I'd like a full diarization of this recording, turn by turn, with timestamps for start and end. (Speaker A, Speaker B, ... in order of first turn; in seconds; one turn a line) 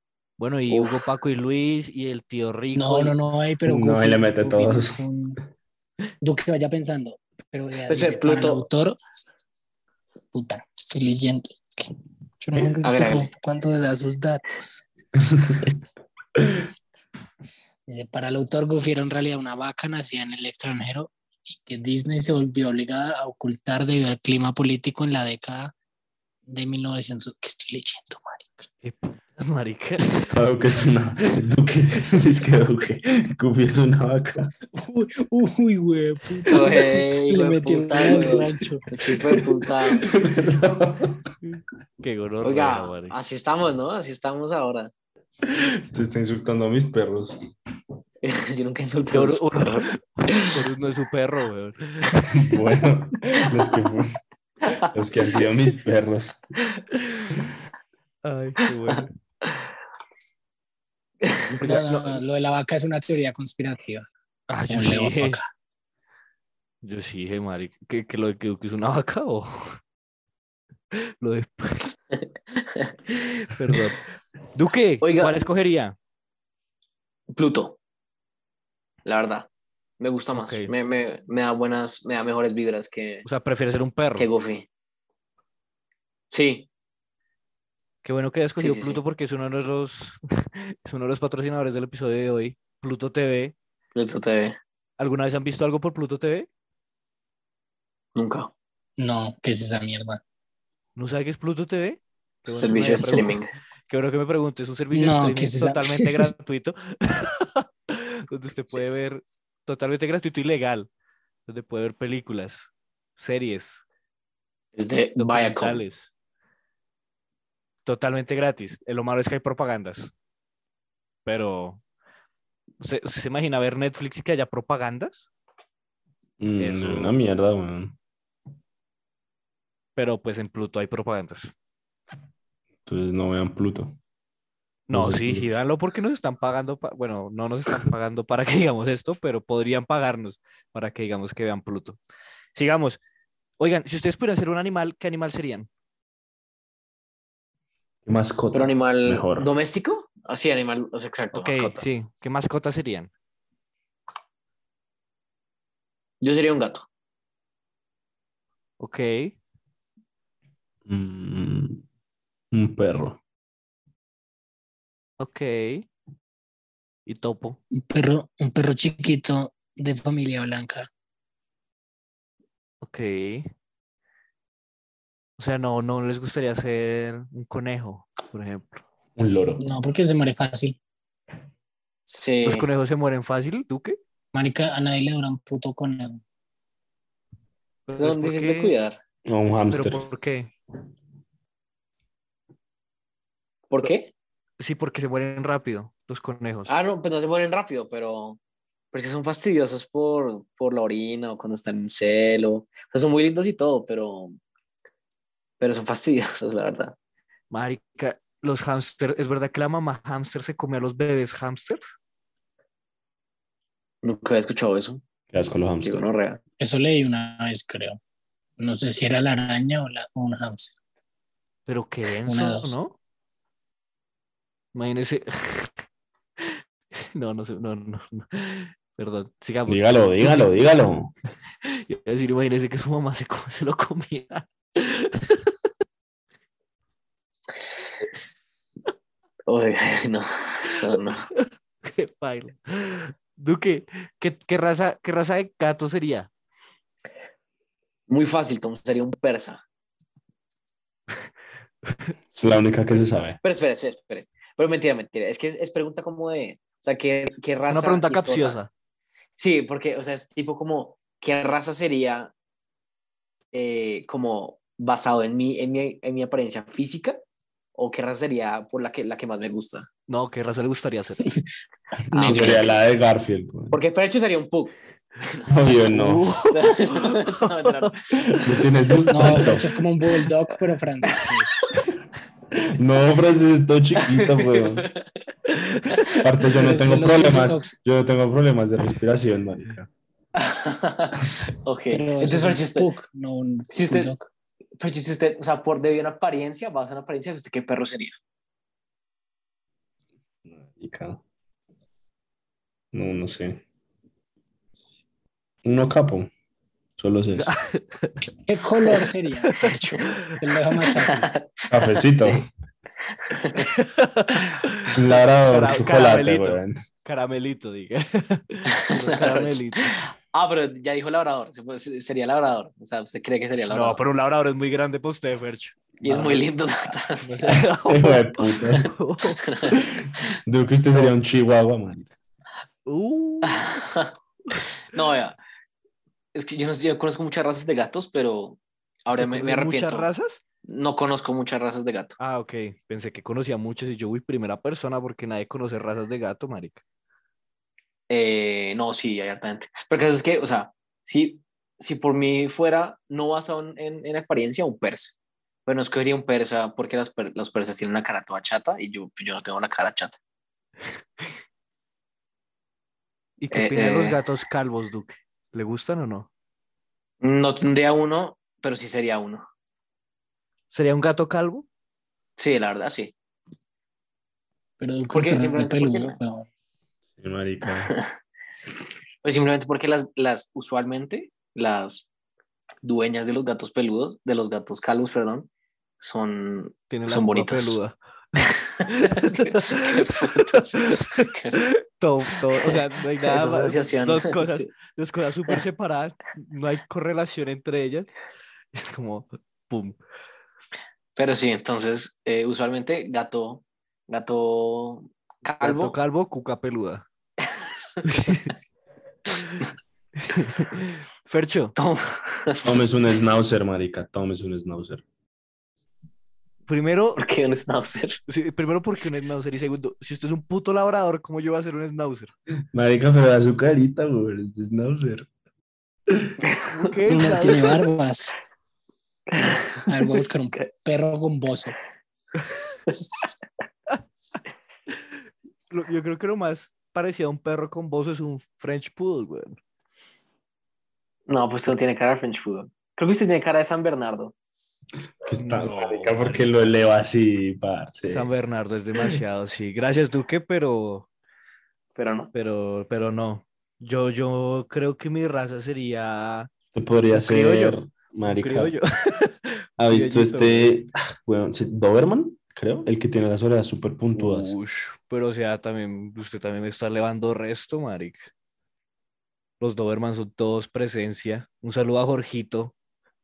Speaker A: 0.4-3.2
Speaker B: 0.7-1.0
Speaker C: 2.8-5.4
Speaker D: 3.6-5.0
Speaker C: 6.2-9.0
Speaker B: 7.9-8.7
Speaker C: 10.3-14.8
Speaker B: 12.6-13.3
Speaker D: 15.4-15.7
Speaker C: 17.9-25.7
Speaker C: 26.5-28.6
Speaker A: 28.8-30.3
Speaker D: 30.2-34.5
Speaker C: 34.7-38.9
Speaker B: 36.5-40.1
Speaker D: 39.3-41.3
Speaker A: 41.4-43.1
Speaker B: 42.4-44.9
Speaker D: 45.4-47.4
Speaker B: 48.2-50.6
Speaker A: 49.1-52.3
Speaker D: 52.3-54.2
Speaker D: 54.8-56.5
Speaker A: 58.2-59.1
Speaker B: 61.2-61.5
Speaker A: 61.6-62.2
Speaker C: 61.6-64.1
Speaker A: 64.5-65.4
Speaker C: 64.7-65.5
Speaker A: 66.8-69.8
Speaker A: 70.9-72.0
Speaker B: 72.6-72.9
Speaker A: 73.1-74.0
Speaker A: 74.5-76.0
Speaker B: 75.0-75.4
Speaker B: 77.3-77.8
Speaker B: 79.0-79.5
Speaker B: 80.0-83.2
Speaker A: 80.3-80.7
Speaker A: 83.2-84.3
Speaker B: 84.2-84.7
Speaker B: 86.3-86.7
Speaker A: 88.0-93.5
Speaker B: 88.6-89.0
Speaker B: 93.9-94.6
Speaker A: 95.0-96.5
Speaker B: 98.2-98.5
Speaker C: 99.0-100.2
Speaker A: 101.0-110.9
Speaker B: 102.5-103.5
Speaker C: 102.8-103.3
Speaker C: 104.9-106.3
Speaker A: 111.5-113.8
Speaker B: 114.7-115.8
Speaker A: 115.2-116.1
Speaker A: 117.8-120.1
Speaker A: 121.2-121.8
Speaker A: 122.8-125.3
Speaker D: 126.4-128.0
Speaker A: 126.6-127.1
Speaker A: 129.9-131.5
Speaker D: 132.8-134.0
Speaker A: 134.9-142.0
Speaker D: 134.9-135.5
Speaker A: 142.5-143.0
Speaker A: 143.6-145.7
Speaker D: 148.1-149.5
Speaker B: 148.5-151.8
Speaker A: 151.3-153.1
Speaker B: 156.2-156.8
Speaker A: 158.8-159.4
Speaker D: 160.8-161.8
Speaker D: 162.5-163.2
Speaker A: 165.2-165.9
Speaker A: 167.1-167.6
Speaker C: 167.7-170.9
Speaker A: 172.8-173.5
Speaker A: 175.4-178.8
Speaker D: 179.2-179.6
Speaker C: 179.6-180.8
Speaker B: 182.1-182.7
Speaker A: 182.4-184.0
Speaker C: 184.3-186.2
Speaker A: 187.9-188.7
Speaker B: 187.9-189.0
Speaker D: 189.2-190.1
Speaker A: 189.7-190.5
Speaker B: 193.7-194.1
Speaker A: 194.6-196.7
Speaker B: 196.7-198.4
Speaker B: 198.9-204.3
Speaker B: 205.6-206.9
Speaker A: 207.5-211.8
Speaker B: 214.0-215.0
Speaker D: 215.3-216.1
Speaker B: 215.8-216.4
Speaker C: 216.6-218.0
Speaker C: 218.6-220.7
Speaker A: 221.7-222.9
Speaker C: 222.2-222.7
Speaker A: 224.7-225.7
Speaker A: 226.4-230.4
Speaker D: 229.7-231.1
Speaker A: 231.7-235.4
Speaker B: 239.5-241.2
Speaker A: 240.9-246.3
Speaker B: 248.1-249.6
Speaker D: 252.3-253.4
Speaker B: 253.4-258.6
Speaker A: 257.7-258.7
Speaker B: 259.4-262.3
Speaker B: 263.5-267.2
Speaker B: 267.8-269.9
Speaker A: 270.1-271.2
Speaker C: 272.1-272.6
Speaker B: 272.1-272.8
Speaker D: 272.1-273.8
Speaker B: 273.7-275.4
Speaker D: 275.5-276.2
Speaker A: 275.9-277.9
Speaker B: 276.5-278.0
Speaker D: 278.3-279.7
Speaker C: 279.1-281.6
Speaker A: 279.2-279.6
Speaker D: 282.7-284.9
Speaker B: 284.0-285.1
Speaker B: 285.9-286.3
Speaker D: 286.2-289.9
Speaker C: 286.5-287.7
Speaker B: 290.3-292.9
Speaker C: 291.9-294.3
Speaker B: 293.7-294.1
Speaker B: 294.8-298.1
Speaker D: 300.5-301.2
Speaker D: 302.9-303.6
Speaker D: 305.6-306.3
Speaker D: 307.0-307.5
Speaker A: 307.4-308.2
Speaker C: 308.4-311.3
Speaker A: 309.5-309.8
Speaker B: 310.9-312.4
Speaker D: 311.7-312.5
Speaker B: 313.2-313.7
Speaker A: 313.5-314.9
Speaker D: 314.9-316.8
Speaker A: 315.5-320.0
Speaker B: 318.7-324.0
Speaker A: 323.6-326.4
Speaker B: 326.0-327.2
Speaker A: 327.2-329.8
Speaker D: 327.8-328.9
Speaker B: 329.4-329.8
Speaker D: 329.8-332.1
Speaker A: 332.9-333.7
Speaker B: 333.4-334.1
Speaker B: 334.9-335.4
Speaker B: 336.3-340.1
Speaker A: 339.1-340.4
Speaker B: 340.6-342.2
Speaker A: 342.2-346.8
Speaker B: 348.1-360.2
Speaker A: 363.4-366.3
Speaker B: 363.5-364.2
Speaker B: 367.2-369.4
Speaker A: 370.7-371.6
Speaker B: 372.4-373.1
Speaker C: 374.8-376.4
Speaker B: 375.1-376.2
Speaker D: 377.2-377.9
Speaker B: 377.7-378.1
Speaker B: 379.2-382.1
Speaker B: 382.8-385.5
Speaker B: 386.0-387.8
Speaker A: 386.9-398.1
Speaker B: 389.1-391.6
Speaker B: 392.6-394.7
Speaker A: 398.7-400.0
Speaker B: 401.1-405.9
Speaker A: 405.6-407.1
Speaker A: 408.0-408.5
Speaker A: 409.3-409.6
Speaker A: 410.2-411.7
Speaker B: 411.8-412.8
Speaker D: 412.6-415.0
Speaker A: 416.7-417.2
Speaker B: 417.2-418.2
Speaker A: 418.3-422.3
Speaker D: 422.7-425.3
Speaker B: 426.4-426.7
Speaker A: 426.7-427.8
Speaker C: 427.1-428.4
Speaker B: 429.3-430.7
Speaker C: 429.9-431.8
Speaker A: 432.4-432.7
Speaker A: 435.7-439.6
Speaker B: 441.3-444.3
Speaker D: 445.2-448.3
Speaker A: 445.3-446.5
Speaker A: 448.1-451.1
Speaker B: 451.9-452.3
Speaker A: 452.3-456.5
Speaker D: 456.7-458.8
Speaker A: 457.1-460.7
Speaker D: 459.8-464.5
Speaker A: 464.1-468.3
Speaker A: 469.6-472.7